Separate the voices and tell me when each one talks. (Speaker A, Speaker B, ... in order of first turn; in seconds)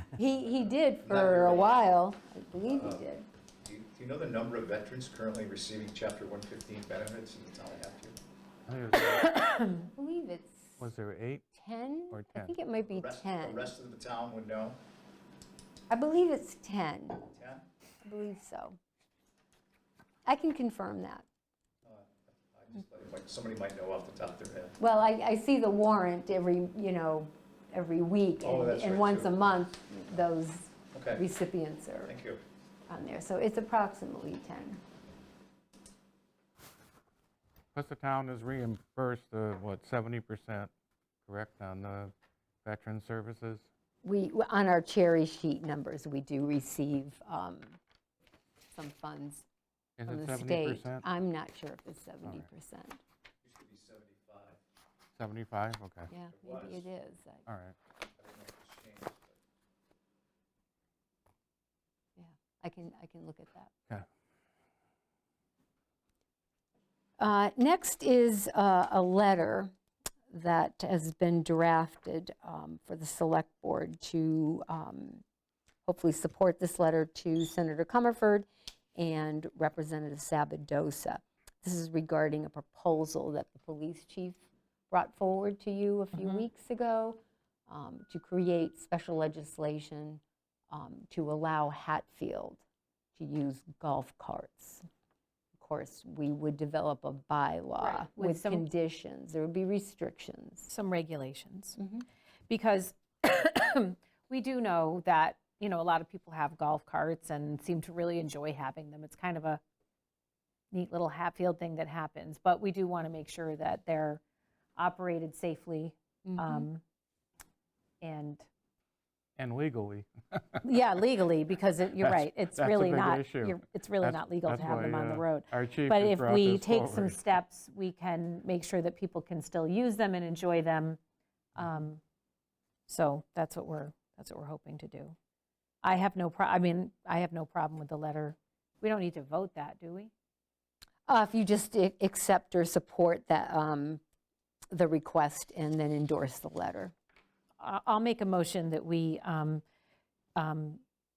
Speaker A: 0.1-3.2, 9.7-10.8, 11.5-13.7, 15.9-17.2, 18.0-18.8, 20.2-21.2, 24.8-32.1, 32.9-34.8, 44.0-47.8, 48.7-49.5, 50.1-53.0, 56.1-57.5, 62.2-63.7, 67.2-69.7, 70.3-75.2, 75.8-92.6, 93.2-94.8, 95.5-100.7, 101.8-102.0, 116.2-116.7, 141.1-144.0, 144.7-146.9
Speaker B: 1.0-1.7, 2.6-3.0, 3.6-8.2, 12.9-14.8, 17.2-17.6, 21.8-24.8, 28.4-29.4, 30.9-31.2, 32.1-32.4, 53.4-54.6, 56.3-56.8, 58.2-59.4
Speaker C: 8.7-9.3, 10.8-11.4, 12.1-12.5, 37.7-40.7, 41.2-42.1, 42.6-43.6, 50.0-51.0, 55.2-56.1, 57.5-57.8, 119.4-120.6, 122.0-127.2
Speaker D: 9.1-9.8, 97.8-98.6, 100.7-101.8, 102.5-109.6, 110.7-114.2, 114.8-116.8, 118.0-118.5, 120.6-131.0, 131.6-132.0, 132.9-135.1, 135.8-140.1, 147.6-149.6, 150.3-150.8